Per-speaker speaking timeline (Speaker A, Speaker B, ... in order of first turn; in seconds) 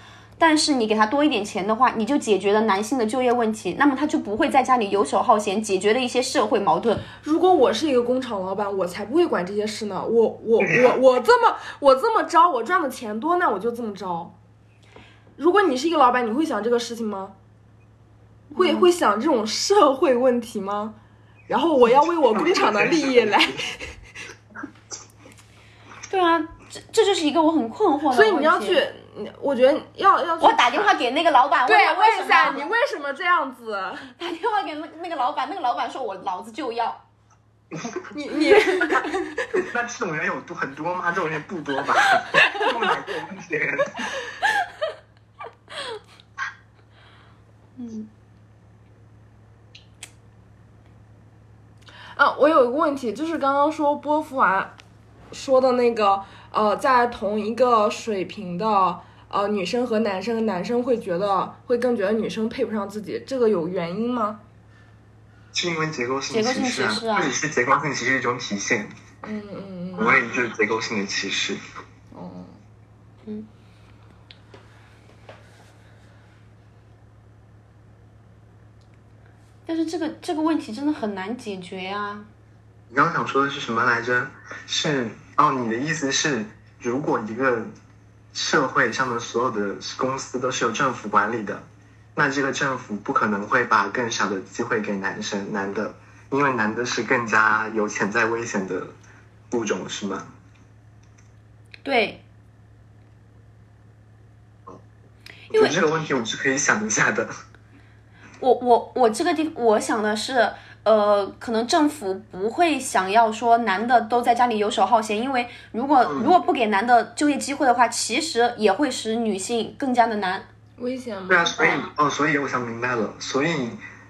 Speaker A: 0.4-7.0, 18.5-18.9, 26.1-28.8, 30.4-32.6, 34.2-37.0, 47.8-48.1, 66.3-67.3, 79.7-82.3, 101.8-102.2, 105.5-105.8, 108.4-120.4
Speaker B: 7.2-14.3, 15.4-17.3, 18.6-20.9, 21.5-23.9, 28.1-30.9, 31.7-34.1, 38.1-39.6, 52.1-54.7, 55.3-64.4, 69.2-70.2, 72.1-72.6, 120.8-121.7
Speaker C: 10.6-11.0, 22.4-23.6, 37.7-38.0, 39.5-44.2, 65.5-68.9, 70.0-71.6, 82.9-87.7, 88.3-91.6, 92.1-98.9, 99.5-100.3, 105.5-107.3, 116.0-116.3, 121.3-123.8